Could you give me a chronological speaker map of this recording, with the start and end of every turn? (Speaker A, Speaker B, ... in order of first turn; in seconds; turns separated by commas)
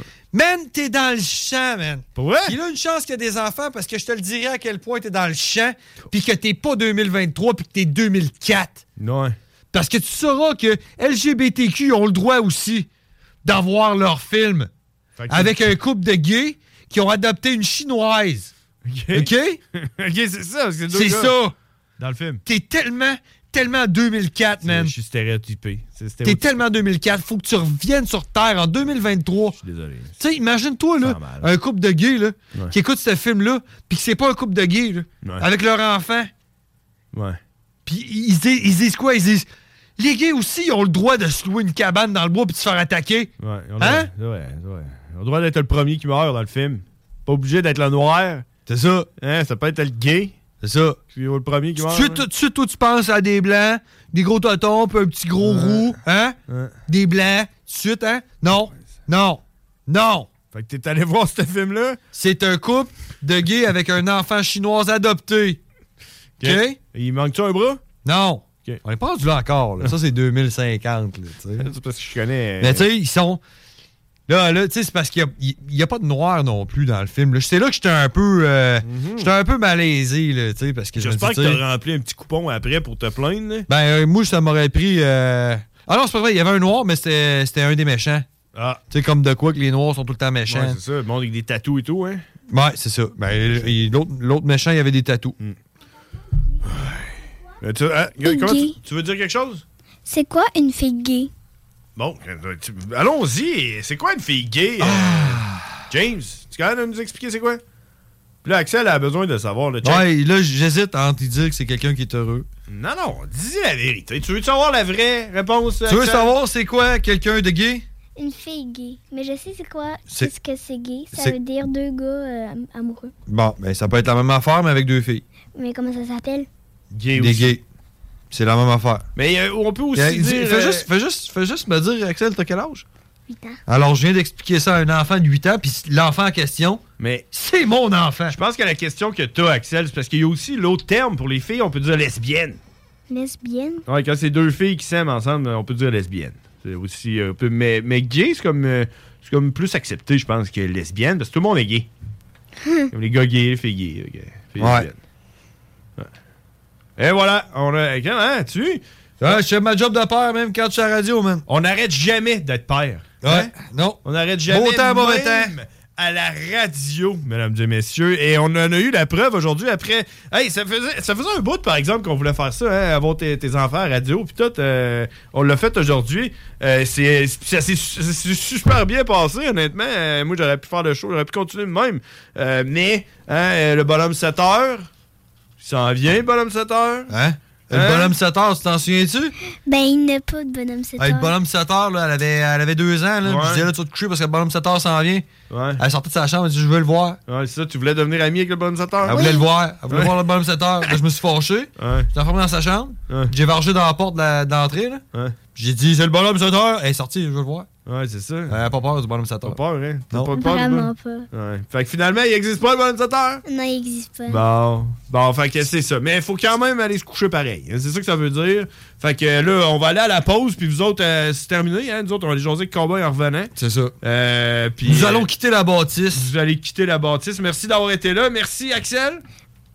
Speaker A: 0.3-8.8, Speaker B: 2.2-2.6, Speaker B: 9.0-9.4, Speaker A: 9.7-12.9, Speaker A: 13.4-14.7, Speaker B: 15.2-15.6, Speaker A: 15.3-18.5, Speaker B: 18.9-21.4, Speaker A: 19.1-19.6, Speaker A: 20.9-21.5, Speaker B: 22.0-22.4, Speaker A: 22.4-24.9, Speaker B: 24.6-26.6, Speaker A: 26.2-29.6, Speaker B: 29.6-30.1, Speaker A: 30.2-36.3, Speaker B: 31.0-31.5, Speaker B: 37.1-37.4, Speaker A: 37.9-44.1, Speaker B: 43.4-48.5, Speaker A: 48.7-49.1, Speaker B: 49.2-50.4, Speaker A: 50.6-51.0, Speaker B: 51.1-52.2, Speaker A: 51.8-60.3, Speaker B: 55.4-55.9, Speaker B: 56.5-56.8, Speaker B: 60.5-62.0, Speaker A: 62.1-65.6, Speaker A: 66.4-66.8, Speaker B: 66.4-67.8, Speaker A: 68.0-71.7, Speaker B: 71.6-72.8, Speaker A: 72.6-73.4, Speaker A: 74.3-81.6, Speaker B: 78.8-79.3, Speaker B: 81.0-83.7, Speaker A: 83.7-88.3, Speaker B: 88.5-88.8, Speaker A: 88.9-90.8, Speaker B: 90.5-92.2, Speaker A: 92.5-95.4, Speaker B: 96.7-97.1, Speaker B: 97.6-99.6, Speaker C: 98.2-98.8, Speaker C: 100.1-101.3, Speaker B: 102.0-107.6, Speaker A: 104.8-105.8, Speaker B: 108.4-110.1, Speaker A: 109.8-112.5, Speaker B: 112.7-116.3, Speaker A: 115.9-117.8, Speaker C: 118.2-123.1, Speaker A: 123.3-125.2, Speaker C: 125.5-126.5, Speaker B: 126.9-127.6, Speaker A: 127.2-127.6, Speaker A: 128.3-129.1, Speaker B: 129.2-130.9, Speaker A: 129.9-132.8, Speaker C: 133.3-133.6, Speaker A: 133.7-138.4, Speaker B: 137.0-137.3, Speaker B: 138.3-142.6, Speaker C: 143.1-143.8, Speaker B: 143.9-151.9, Speaker B: 152.9-155.0, Speaker A: 154.6-154.9, Speaker B: 157.0-159.4, Speaker A: 159.2-161.4, Speaker B: 161.5-163.5, Speaker A: 163.2-165.6, Speaker B: 164.0-184.9, Speaker B: 185.6-187.1, Speaker A: 187.1-189.3, Speaker B: 187.7-188.1, Speaker C: 189.7-191.3, Speaker A: 191.0-197.2, Speaker B: 193.2-193.7, Speaker B: 195.5-195.8, Speaker B: 197.3-199.2, Speaker A: 199.1-205.0, Speaker C: 199.1-199.4, Speaker B: 199.9-200.2, Speaker B: 201.8-202.1, Speaker A: 205.6-207.7, Speaker B: 207.9-208.6, Speaker A: 208.5-209.6, Speaker B: 209.4-213.4, Speaker C: 210.3-211.3, Speaker C: 213.4-214.4, Speaker B: 214.3-225.3, Speaker A: 223.6-223.9, Speaker A: 224.8-226.3, Speaker B: 226.1-229.2